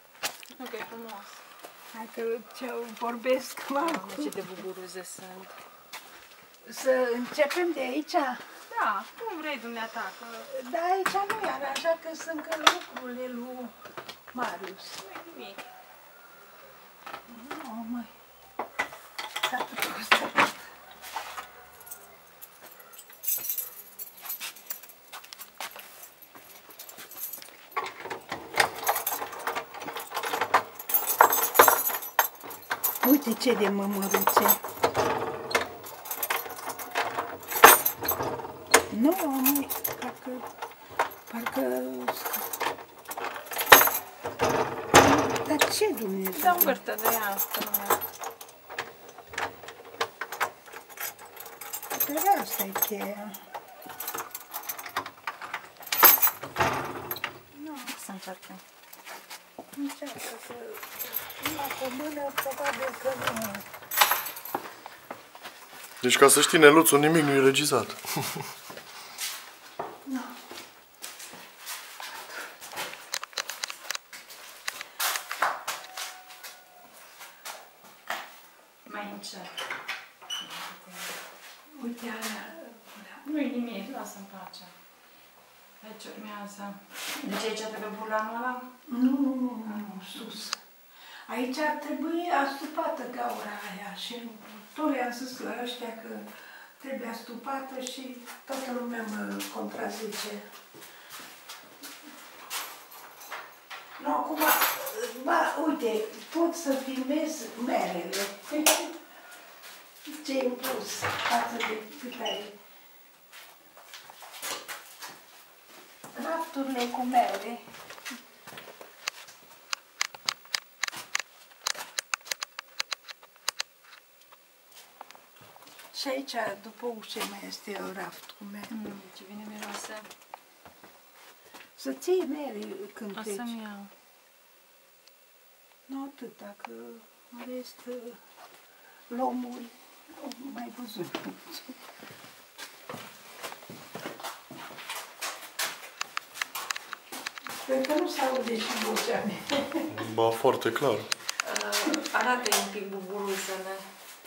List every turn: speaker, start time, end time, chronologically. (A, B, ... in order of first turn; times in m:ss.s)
0:00.5-0:01.4 A
0:01.9-0:04.6 B
0:03.8-0:05.6 A
0:06.6-0:08.4 B
0:08.7-0:10.5 A
0:10.5-0:13.8 B
0:14.3-0:15.0 B
0:15.0-0:15.7 A
0:17.3-0:18.1 B
0:19.5-0:20.6 B
0:33.0-0:34.6 B
0:38.9-0:40.5 B
0:41.3-0:42.5 B
0:45.0-0:46.8 B
0:46.4-0:48.0 A
0:51.9-0:53.4 B
0:57.6-0:57.9 B
0:57.8-0:58.6 A
0:59.8-1:03.6 B
1:06.0-1:08.5 C
1:10.1-1:10.4 B
1:18.9-1:19.5 A
1:20.4-1:21.2 A
1:21.8-1:23.2 B
1:23.2-1:24.7 A
1:25.8-1:28.7 A
1:28.9-1:30.6 B
1:31.3-1:40.4 B
1:44.0-1:48.9 B
1:50.1-1:52.6 B
1:56.1-1:57.6 B
2:05.9-2:08.7 B
2:08.7-2:10.1 A
2:11.8-2:13.6 B
2:13.1-2:13.9 A
2:15.9-2:18.2 B
2:19.1-2:21.8 B
2:27.5-2:29.9 B
2:29.9-2:31.1 C
2:31.4-2:33.8 A